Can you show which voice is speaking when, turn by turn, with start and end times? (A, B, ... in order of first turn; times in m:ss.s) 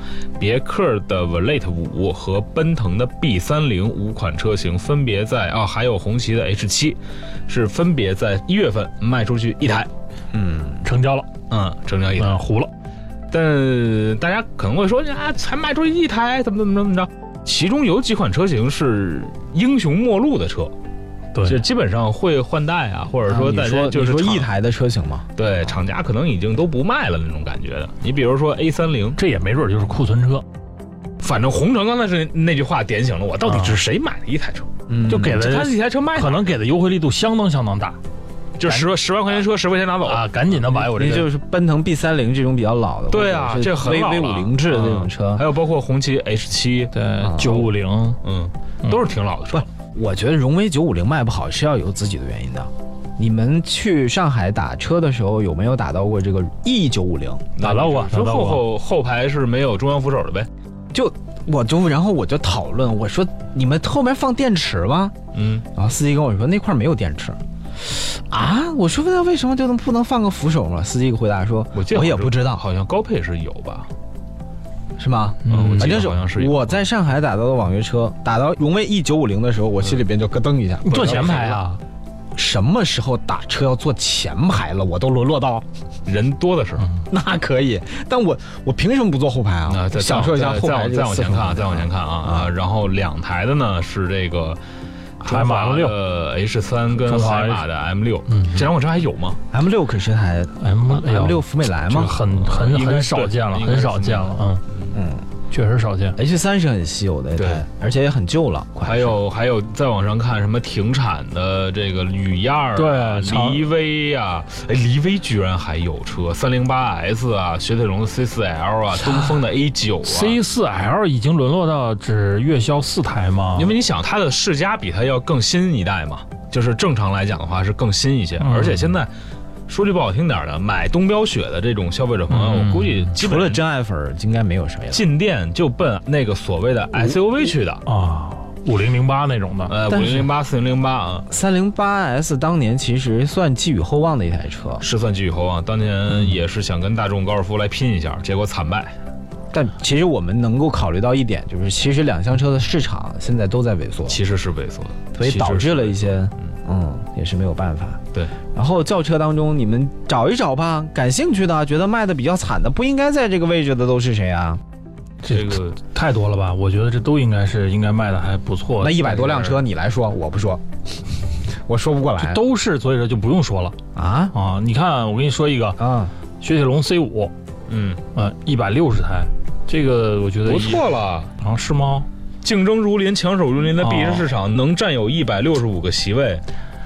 0:00.4-0:09.9 A
0:10.3-0:10.8 B
0:10.8-0:11.3 C
0:11.5-0:12.4 A
0:12.2-0:12.7 C
0:13.3-0:20.7 A
0:21.3-0:21.6 C
0:21.4-0:24.5 A
0:23.2-0:25.3 B
0:25.4-0:29.2 A
0:29.2-0:30.4 C
0:31.2-0:34.7 A
0:33.4-0:33.8 C
0:34.9-0:35.3 B
0:35.1-0:38.0 C
0:35.3-0:36.5 A
0:38.6-0:40.2 A
0:40.0-0:41.3 C
0:40.6-0:45.4 B
0:43.1-0:47.7 A
0:46.9-0:48.2 C
0:47.2-0:47.7 B
0:48.2-0:49.6 A
0:49.5-0:57.5 B
0:57.6-1:00.5 A
0:57.6-0:58.6 C
1:00.9-1:05.1 B
1:05.3-1:05.6 A
1:05.7-1:12.6 B
1:11.7-1:13.9 A
1:15.0-1:21.6 B
1:15.4-1:15.9 C
1:15.5-1:16.8 A
1:20.8-1:21.8 C
1:20.9-1:21.6 A
1:22.3-1:25.6 B
1:26.0-1:26.9 A
1:27.1-1:32.5 B
1:29.7-1:34.6 A
1:35.2-1:39.4 A
1:35.2-1:36.0 C
1:37.0-1:37.6 C
1:38.3-1:38.7 C
1:39.5-1:42.2 B
1:40.6-1:44.6 C
1:42.3-1:44.9 A
1:44.9-1:45.2 B
1:45.5-1:46.2 C
1:46.2-1:49.2 B
1:47.4-1:47.6 A
1:48.8-2:00.4 A
1:52.8-1:53.6 C
1:59.0-1:59.4 C
2:00.0-2:03.7 C
2:03.6-2:09.1 A
2:08.4-2:08.9 C
2:09.7-2:13.6 A
2:12.3-2:13.1 C
2:13.2-2:15.0 B
2:14.9-2:17.8 A
2:17.8-2:19.8 C
2:19.7-2:21.3 A
2:19.9-2:20.2 B
2:21.3-2:24.8 B
2:24.8-2:28.9 A
2:29.5-2:34.2 B
2:34.1-2:36.1 A
2:35.2-2:38.0 B
2:38.5-2:44.6 B
2:45.2-2:49.6 C
2:45.3-2:45.8 A
2:48.8-2:50.6 B
2:51.6-2:52.4 B
2:52.2-2:53.8 C
2:53.9-2:54.3 B
2:54.3-2:55.8 C
2:55.8-2:56.1 B
2:56.4-2:57.3 C
2:57.7-2:58.0 A
2:58.1-3:00.8 C
3:00.4-3:01.3 A
3:01.4-3:02.1 C
3:02.4-3:06.4 A
3:03.8-3:04.3 C